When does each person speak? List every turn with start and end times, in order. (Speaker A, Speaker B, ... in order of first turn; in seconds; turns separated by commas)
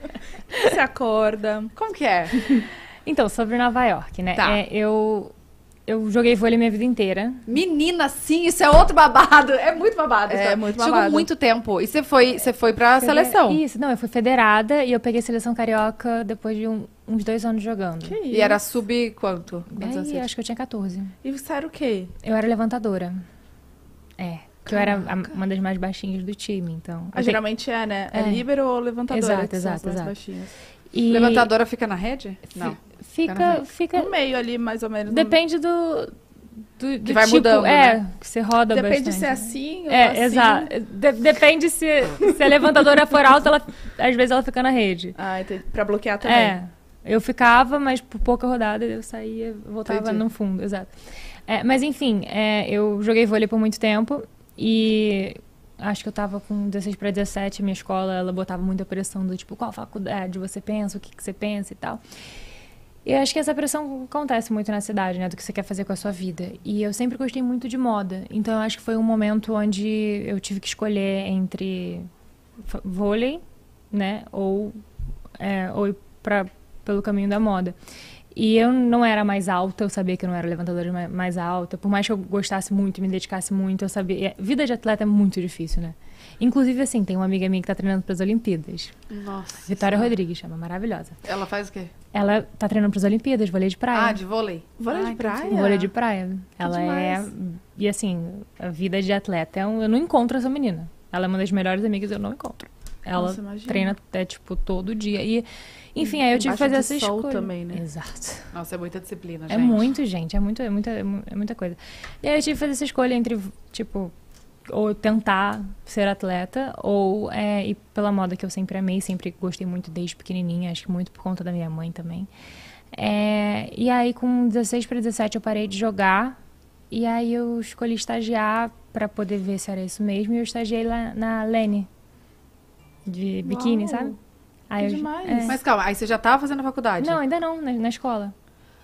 Speaker A: 0.5-1.7, Speaker B: 1.7-2.4, Speaker C: 3.0-5.3, Speaker B: 4.3-4.6, Speaker C: 5.9-7.4, Speaker B: 7.5-13.6, Speaker A: 10.3-11.3, Speaker C: 12.9-18.2, Speaker A: 18.0-18.6, Speaker B: 18.3-20.3, Speaker C: 19.7-21.1, Speaker A: 21.2-22.1, Speaker C: 22.2-23.1, Speaker C: 24.2-27.4, Speaker A: 27.1-30.5, Speaker C: 28.1-28.4, Speaker C: 29.1-30.1, Speaker C: 30.9-31.5, Speaker B: 31.1-33.6, Speaker C: 32.5-34.1, Speaker A: 33.9-35.4, Speaker C: 35.1-36.1, Speaker C: 36.8-45.2, Speaker B: 37.0-38.0, Speaker A: 38.7-40.7, Speaker A: 45.2-46.6, Speaker C: 46.2-50.9, Speaker A: 49.9-50.2, Speaker C: 51.5-62.0, Speaker C: 63.0-72.1, Speaker C: 72.6-74.7, Speaker C: 75.4-77.8, Speaker C: 78.3-89.0, Speaker B: 89.1-90.1, Speaker C: 89.7-91.2, Speaker B: 91.2-91.9, Speaker C: 92.1-94.2, Speaker B: 93.9-94.7, Speaker A: 94.8-95.9, Speaker C: 94.9-108.5, Speaker A: 96.6-97.3, Speaker A: 103.1-103.9, Speaker A: 106.2-107.8, Speaker B: 108.5-109.9, Speaker C: 109.5-114.1, Speaker C: 114.7-122.3, Speaker C: 122.9-126.3, Speaker C: 126.9-131.9, Speaker C: 133.1-134.1, Speaker A: 133.4-134.1, Speaker C: 134.7-135.6, Speaker A: 134.8-135.6, Speaker B: 135.5-137.2, Speaker C: 137.0-138.3